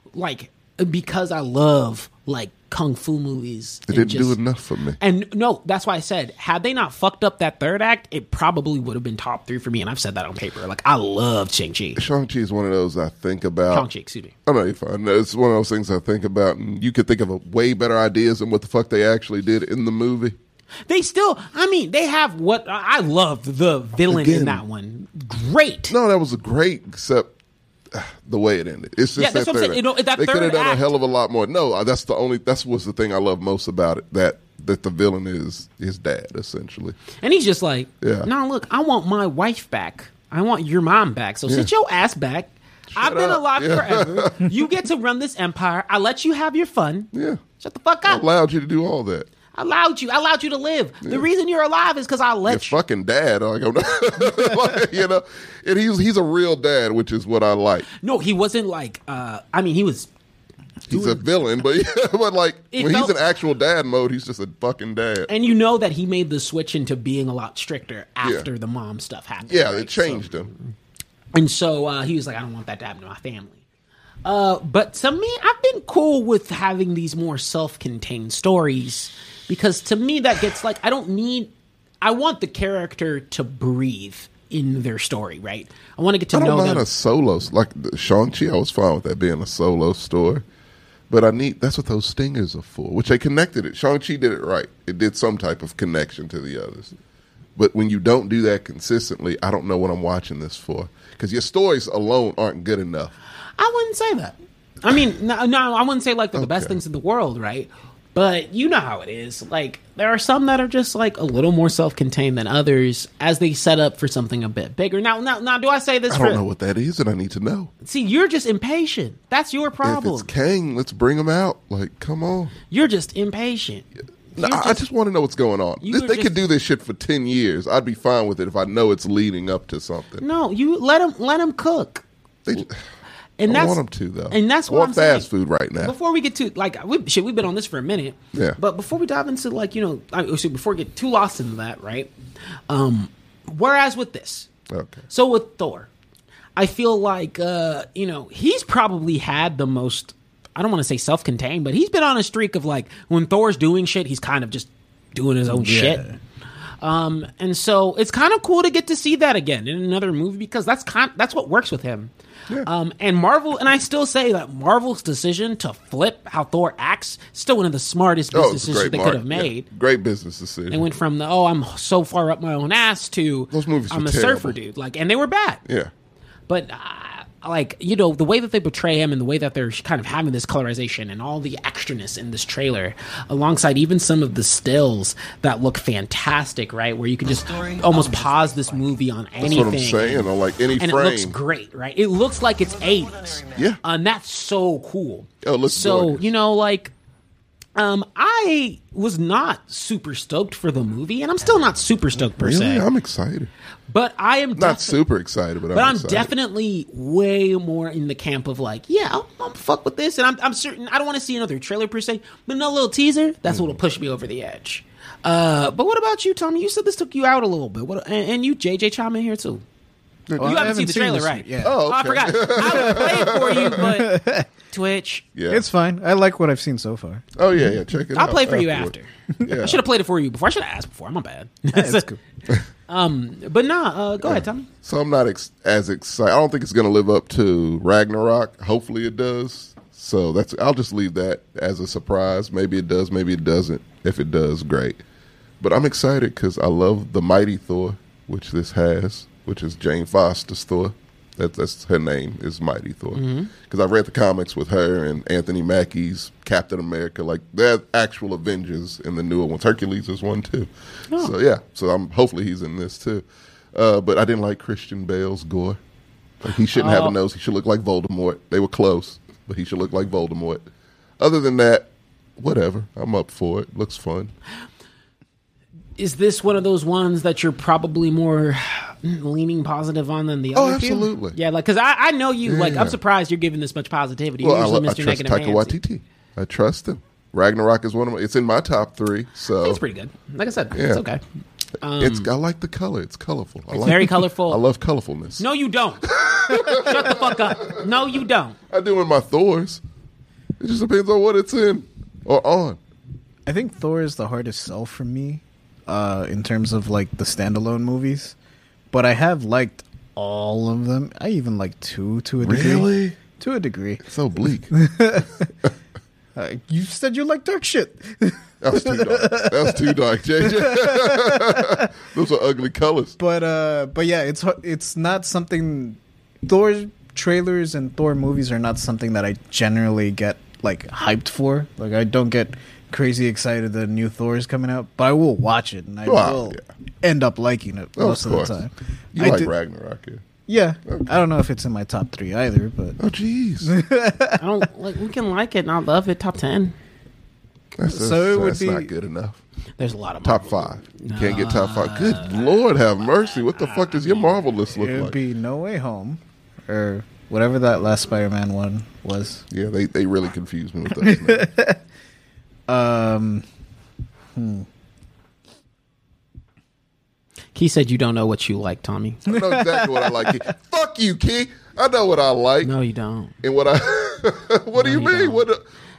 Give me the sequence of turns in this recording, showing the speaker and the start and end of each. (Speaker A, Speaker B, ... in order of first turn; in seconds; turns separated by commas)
Speaker A: 0.1-4.3, Speaker B: 3.9-5.0, Speaker A: 5.0-12.0, Speaker B: 12.0-13.9, Speaker A: 13.7-14.3, Speaker B: 14.4-20.4, Speaker A: 20.9-25.9, Speaker B: 24.1-24.6, Speaker B: 25.9-27.3, Speaker B: 27.9-37.0, Speaker A: 29.2-30.9, Speaker A: 37.2-48.2, Speaker B: 38.0-38.3, Speaker B: 42.9-44.5, Speaker B: 47.1-47.4, Speaker B: 48.0-49.3, Speaker A: 49.5-52.8, Speaker B: 52.5-57.9, Speaker A: 58.0-60.1, Speaker B: 60.9-65.3, Speaker A: 60.9-61.2, Speaker A: 62.7-63.2, Speaker A: 65.3-70.5, Speaker B: 69.5-70.5, Speaker A: 71.3-73.6, Speaker A: 74.2-81.5, Speaker A: 82.0-86.8, Speaker B: 86.3-90.4, Speaker B: 91.1-96.9, Speaker B: 97.5-103.1, Speaker A: 103.6-116.4, Speaker B: 106.3-106.8, Speaker B: 116.1-117.7, Speaker A: 117.8-120.3, Speaker B: 119.8-122.5, Speaker A: 122.7-124.8, Speaker B: 124.3-130.2, Speaker A: 125.8-126.4, Speaker A: 130.2-132.0, Speaker B: 132.4-132.8, Speaker A: 133.4-133.8, Speaker B: 133.5-135.9, Speaker A: 134.3-135.3, Speaker A: 135.8-142.1, Speaker A: 142.7-144.5, Speaker B: 144.7-145.0, Speaker A: 145.1-145.9, Speaker A: 146.6-156.0, Speaker C: 155.5-156.2, Speaker A: 156.8-162.1, Speaker A: 162.6-169.7, Speaker B: 168.3-170.8, Speaker A: 170.7-175.6, Speaker B: 173.5-174.6, Speaker A: 176.5-196.9, Speaker B: 189.4-191.3, Speaker B: 195.4-196.3, Speaker A: 197.8-202.8, Speaker B: 202.3-203.5, Speaker A: 203.9-205.0, Speaker B: 204.6-206.3, Speaker A: 205.7-219.6, Speaker B: 220.3-220.7, Speaker C: 220.4-221.8, Speaker A: 220.4-225.2, Speaker B: 221.6-223.8, Speaker C: 223.7-224.5, Speaker B: 225.3-225.6, Speaker C: 225.5-227.2, Speaker B: 227.3-228.9, Speaker A: 228.1-232.1, Speaker B: 229.4-229.8, Speaker C: 231.7-232.2, Speaker A: 232.9-234.7, Speaker B: 234.2-245.0, Speaker B: 245.6-265.8, Speaker A: 253.1-253.5, Speaker B: 266.4-270.6, Speaker A: 266.7-267.1, Speaker B: 271.2-274.3, Speaker A: 276.0-285.8, Speaker B: 280.5-281.4, Speaker B: 282.4-283.0, Speaker B: 284.4-289.8, Speaker A: 289.6-291.2, Speaker B: 290.7-291.0, Speaker A: 291.8-292.3, Speaker B: 292.0-295.4, Speaker A: 293.7-294.6, Speaker A: 295.4-298.6, Speaker B: 296.0-297.9, Speaker B: 298.7-299.8, Speaker B: 300.6-302.8, Speaker C: 303.4-308.4, Speaker C: 308.9-314.1, Speaker B: 312.4-313.1, Speaker B: 314.1-314.7, Speaker C: 314.7-315.5, Speaker C: 316.3-321.9, Speaker B: 318.6-323.1, Speaker C: 323.2-339.5, Speaker B: 336.1-336.6, Speaker B: 338.0-338.6, Speaker B: 339.1-340.2, Speaker C: 340.5-343.0, Speaker B: 340.9-341.2, Speaker B: 343.0-343.7, Speaker C: 343.6-344.6, Speaker A: 344.4-346.7, Speaker B: 347.8-349.4, Speaker C: 347.9-348.9, Speaker A: 349.8-352.5, Speaker B: 350.2-355.2, Speaker A: 353.1-354.4, Speaker C: 354.8-359.4, Speaker B: 359.5-361.5, Speaker C: 360.9-361.8, Speaker C: 362.7-363.4, Speaker C: 364.3-364.7, Speaker A: 367.5-369.2, Speaker C: 369.3-370.4, Speaker B: 369.3-372.7, Speaker A: 372.6-373.3, Speaker B: 373.4-375.6, Speaker A: 374.7-375.5